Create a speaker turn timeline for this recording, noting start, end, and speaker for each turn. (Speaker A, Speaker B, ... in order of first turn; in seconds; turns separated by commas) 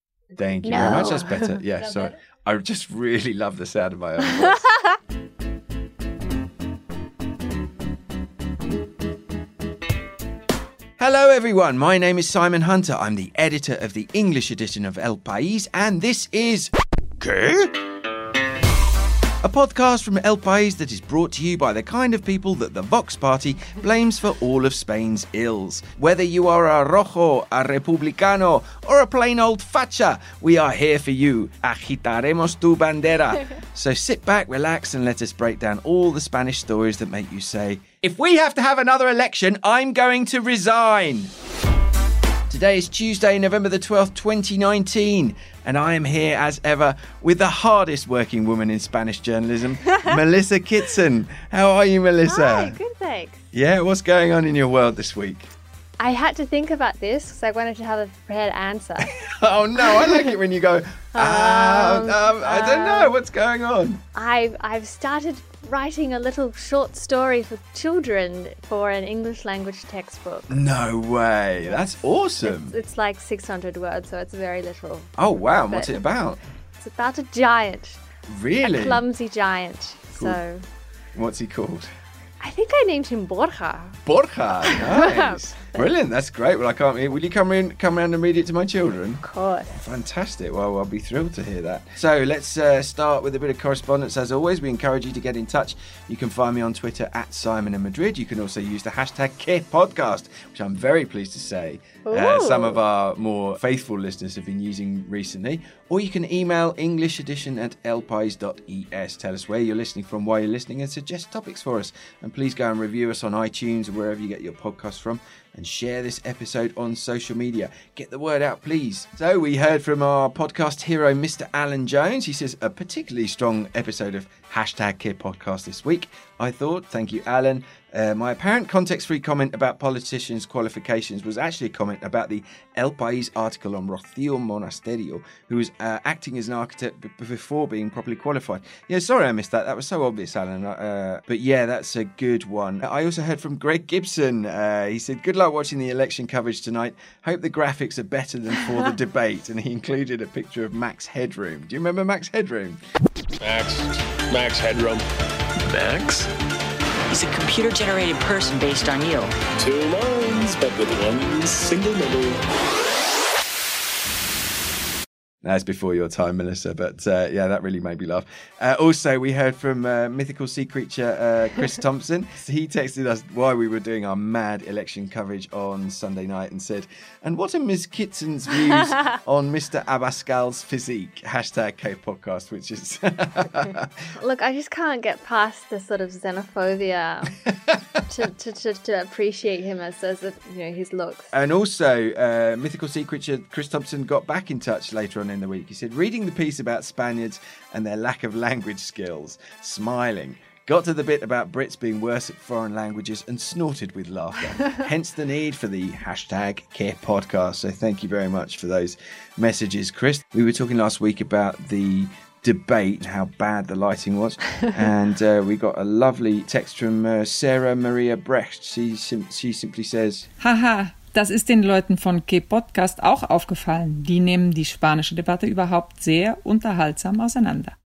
Speaker A: 0.4-4.7, Speaker B: 0.7-1.2, Speaker A: 11.0-17.8, Speaker A: 19.4-41.3, Speaker A: 42.5-52.8, Speaker B: 52.3-53.4, Speaker A: 53.5-55.5, Speaker B: 56.0-59.1, Speaker A: 59.0-64.0, Speaker B: 61.1-63.1, Speaker B: 64.2-70.6, Speaker A: 70.5-72.8, Speaker B: 72.4-75.1, Speaker A: 75.2-76.4, Speaker B: 75.7-76.0, Speaker B: 76.8-78.0, Speaker A: 78.3-79.0, Speaker B: 78.6-80.6, Speaker A: 81.1-81.9, Speaker B: 82.4-84.0, Speaker A: 84.0-152.8, Speaker B: 84.7-85.4, Speaker B: 89.2-89.8, Speaker B: 102.1-102.8, Speaker C: 153.4-155.0, Speaker C: 155.7-156.2, Speaker D: 157.1-159.3, Speaker C: 159.6-162.4, Speaker A: 165.4-183.9, Speaker B: 184.1-187.3, Speaker B: 188.1-191.3, Speaker A: 191.3-220.3, Speaker E: 220.4-227.7